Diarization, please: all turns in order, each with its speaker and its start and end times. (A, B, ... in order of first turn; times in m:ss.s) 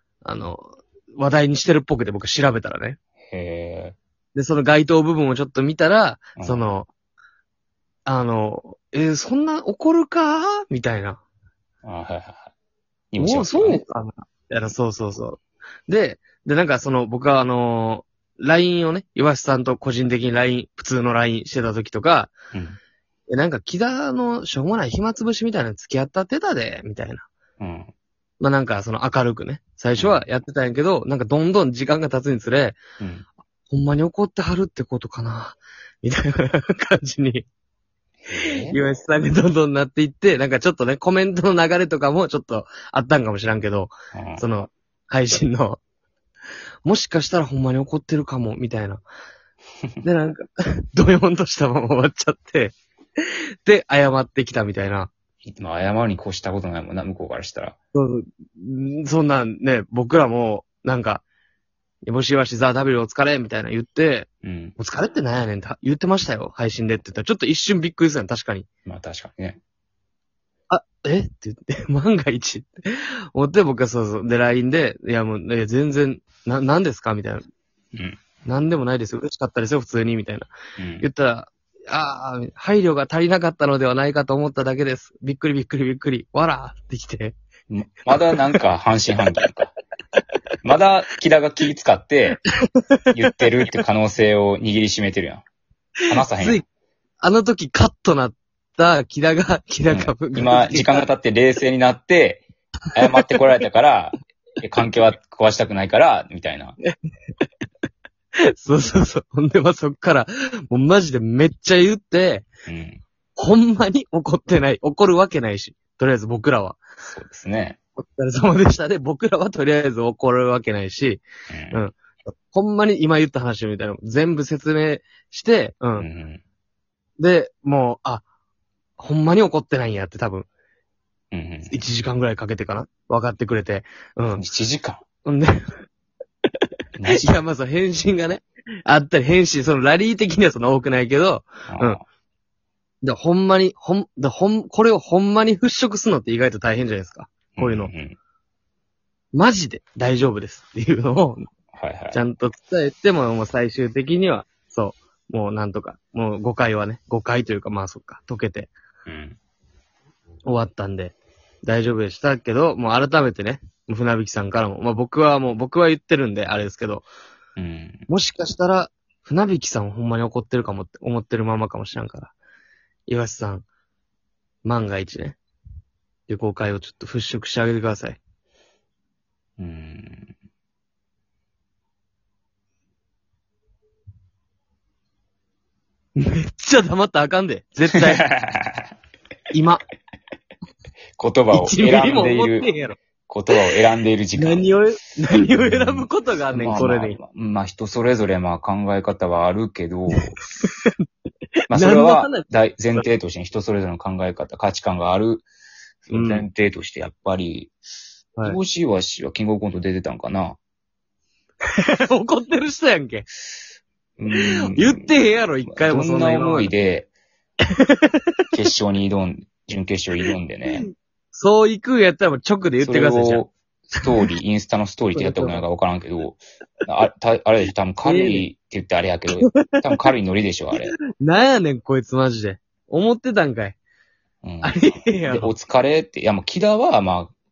0:00.2-0:03.0 A
0:03.3-0:04.0 B
0:04.4-0:06.9 A
0:06.4-0:06.7 B
0:08.1-0:11.2 A
0:11.8-0:12.5 B
0:13.1-0:13.8 B
0:13.2-0:22.4 A
0:22.5-0:22.8 B
0:23.3-0:27.3 A
0:27.6-0:27.9 B
0:28.4-0:32.8 A
0:30.0-0:30.2 B
0:33.0-0:33.3 B
0:33.7-0:37.4 A
0:38.2-0:38.8 B
0:38.4-0:45.8 A
0:44.1-0:44.4 B
0:46.8-0:49.0 A
0:50.0-0:55.1 A
0:55.4-0:57.8 B
0:57.9-1:01.2 A
1:02.0-1:08.7 A
1:04.4-1:04.8 B
1:08.9-1:09.6 B
1:10.7-1:17.4 A
1:18.5-1:20.5 A
1:20.8-1:21.1 B
1:21.0-1:27.3 A
1:27.7-1:29.7 B
1:30.6-1:32.4 B
1:32.7-1:33.0 A
1:33.1-1:35.4 B
1:36.1-1:36.6 B
1:36.3-1:36.6 A
1:37.2-1:41.1 A
1:39.9-1:46.8 B
1:48.5-1:52.5 A
1:52.7-1:53.0 B
1:53.4-1:56.8 A
1:57.1-1:57.8 B
1:58.0-2:01.9 A
2:01.5-2:01.8 B
2:02.5-2:06.1 A
2:06.0-2:06.4 B
2:07.2-2:08.2 A
2:09.0-2:10.5 A
2:11.3-2:11.8 B
2:11.7-2:14.4 A
2:14.4-2:15.0 B
2:15.2-2:15.6 A
2:17.0-2:17.3 B
2:17.1-2:22.0 A
2:21.7-2:22.0 B
2:23.0-2:27.9 A
2:27.6-2:28.2 B
2:29.3-2:31.5 A
2:31.7-2:32.2 B
2:32.1-2:38.7 A
2:39.1-2:39.4 B
2:40.5-2:47.1 A
2:47.6-2:48.1 B
2:48.1-2:52.3 A
2:53.1-2:53.7 A
2:54.6-2:55.4 A
2:56.3-2:58.2 A
2:59.6-3:00.3 B
3:06.2-3:08.2 A
3:07.9-3:08.9 B
3:09.5-3:09.8 A
3:11.2-3:12.7 B
3:11.5-3:13.0 A
3:13.3-3:14.8 B
3:14.4-3:17.2 A
3:15.4-3:20.4 B
3:20.6-3:21.1 A
3:21.7-3:23.0 A
3:21.7-3:25.5 B
3:26.0-3:27.7 B
3:26.1-3:26.5 A
3:28.4-3:30.6 B
3:31.7-3:33.3 A
3:34.2-3:37.1 B
3:34.4-3:36.7 A
3:37.8-3:38.2 A
3:38.5-3:40.9 B
3:40.7-3:43.4 A
3:42.8-3:51.0 B
3:45.2-3:45.6 A
3:48.0-3:48.5 A
3:49.5-3:50.1 A
3:51.2-3:53.8 A
3:54.4-3:57.3 B
3:54.6-3:55.5 A